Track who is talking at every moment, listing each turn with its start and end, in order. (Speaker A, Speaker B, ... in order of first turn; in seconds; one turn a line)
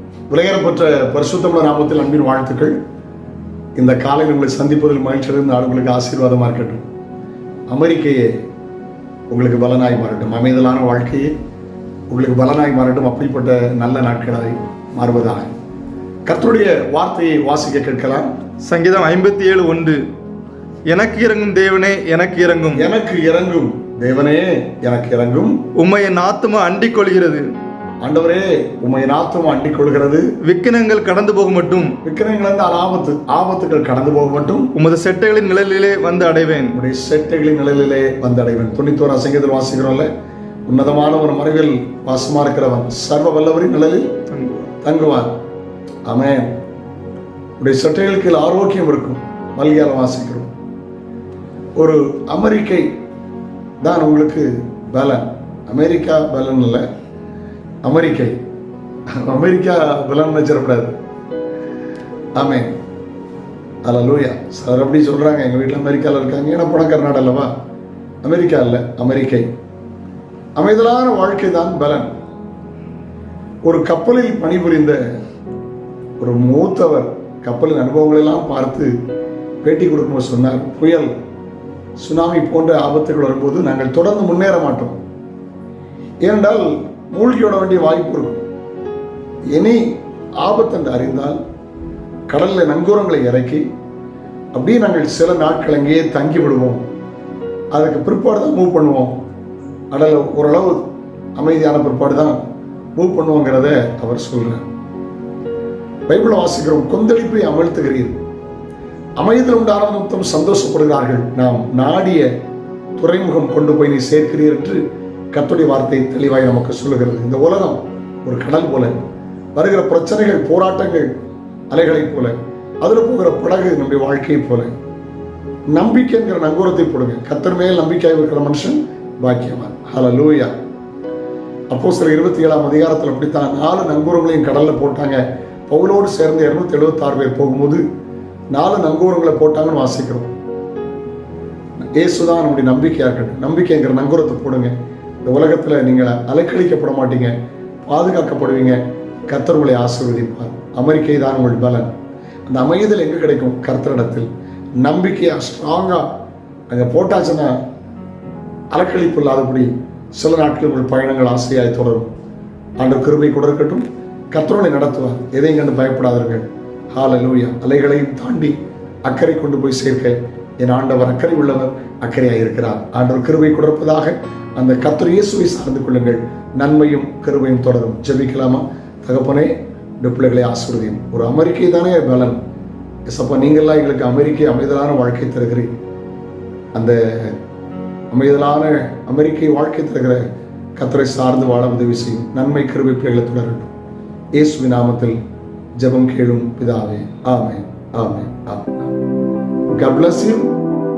Speaker A: 0.3-2.8
Speaker A: 3.8-6.8
Speaker A: 7.7-8.4
Speaker A: 9.3-11.3
Speaker A: 12.1-15.5
Speaker A: 16.3-18.3
Speaker B: 18.6-20.0
Speaker B: 20.9-22.9
Speaker A: 22.7-25.6
Speaker B: 25.8-27.5
Speaker A: 28.0-30.3
Speaker B: 30.4-31.9
Speaker A: 32.0-34.7
Speaker B: 34.7-36.8
Speaker A: 36.7-40.1
Speaker A: 40.7-44.1
Speaker A: 44.8-45.3
Speaker A: 46.1-46.5
Speaker A: 47.6-50.5
Speaker A: 51.8-52.9
Speaker A: 53.8-56.8
Speaker A: 57.8-58.4
Speaker A: 59.1-60.9
Speaker A: 62.4-62.7
Speaker A: 63.8-67.5
Speaker A: 68.2-69.5
Speaker A: 70.6-72.1
Speaker A: 73.6-75.0
Speaker A: 76.2-78.9
Speaker A: 79.6-81.1
Speaker A: 82.0-85.0
Speaker A: 86.2-88.4
Speaker A: 89.5-89.8
Speaker A: 90.4-91.4
Speaker A: 92.3-93.6
Speaker A: 94.5-96.8
Speaker A: 97.7-99.2
Speaker A: 99.9-100.8
Speaker A: 101.4-102.4
Speaker A: 103.0-104.6
Speaker A: 106.1-108.2
Speaker A: 109.2-112.3
Speaker A: 113.0-118.9
Speaker A: 119.5-121.1
Speaker A: 121.7-124.7
Speaker A: 125.7-130.5
Speaker A: 131.7-137.8
Speaker A: 138.5-140.3
Speaker A: 141.9-151.9
Speaker A: 152.5-154.3
Speaker A: 154.8-156.1
Speaker A: 156.7-157.6
Speaker A: 158.7-162.1
Speaker A: 162.8-182.4
Speaker A: 183.1-185.7
Speaker A: 186.7-187.4
Speaker A: 188.1-190.2
Speaker A: 190.8-193.7
Speaker A: 194.3-195.2
Speaker A: 195.8-198.9
Speaker A: 199.7-200.5